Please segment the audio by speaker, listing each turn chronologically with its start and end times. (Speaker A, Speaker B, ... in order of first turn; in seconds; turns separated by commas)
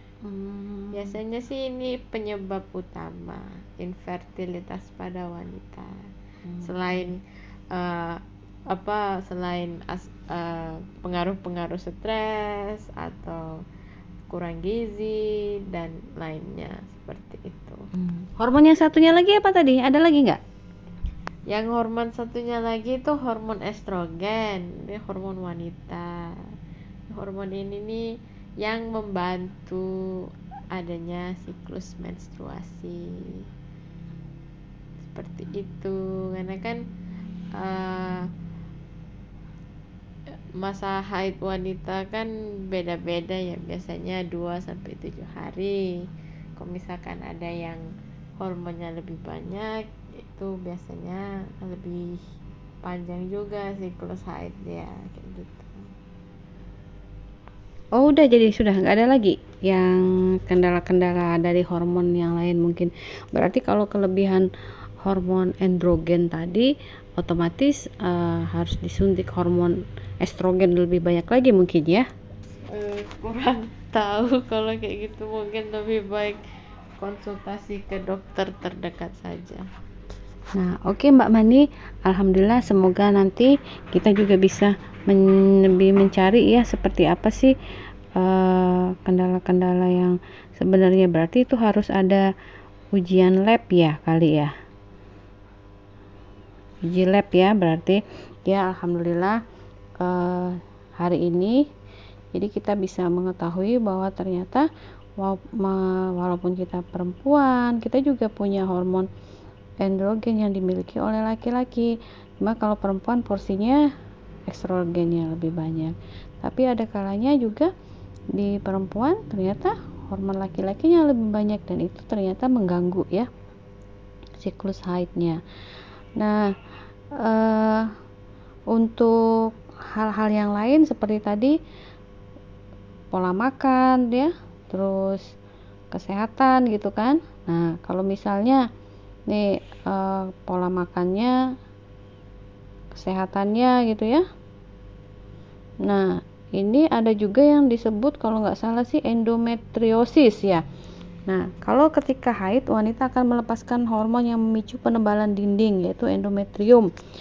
Speaker A: 0.2-1.1, Speaker B: 0.9-5.9, Speaker B: 6.6-7.2, Speaker B: 7.7-13.6, Speaker B: 14.3-17.8, Speaker A: 18.0-20.4, Speaker B: 21.5-26.3, Speaker B: 27.1-28.0, Speaker B: 28.6-33.4, Speaker B: 35.0-36.8, Speaker B: 37.6-38.3, Speaker B: 40.6-45.9, Speaker B: 46.6-47.8, Speaker B: 48.4-52.2, Speaker B: 52.9-55.8, Speaker A: 58.0-64.5, Speaker A: 65.0-72.1, Speaker B: 72.7-76.4, Speaker B: 77.0-79.6, Speaker A: 80.6-87.5, Speaker A: 88.2-92.2, Speaker A: 93.0-94.5, Speaker A: 96.9-99.4, Speaker A: 100.0-101.6, Speaker A: 102.3-109.1, Speaker A: 109.8-113.8, Speaker A: 114.5-117.7, Speaker A: 118.4-123.3, Speaker A: 124.4-125.4, Speaker A: 126.2-126.5, Speaker A: 127.2-127.9, Speaker A: 128.7-129.2, Speaker A: 129.9-131.5, Speaker A: 133.1-135.2, Speaker A: 135.9-138.6, Speaker A: 139.3-141.3, Speaker A: 142.9-144.2, Speaker A: 145.9-150.6, Speaker A: 151.3-156.9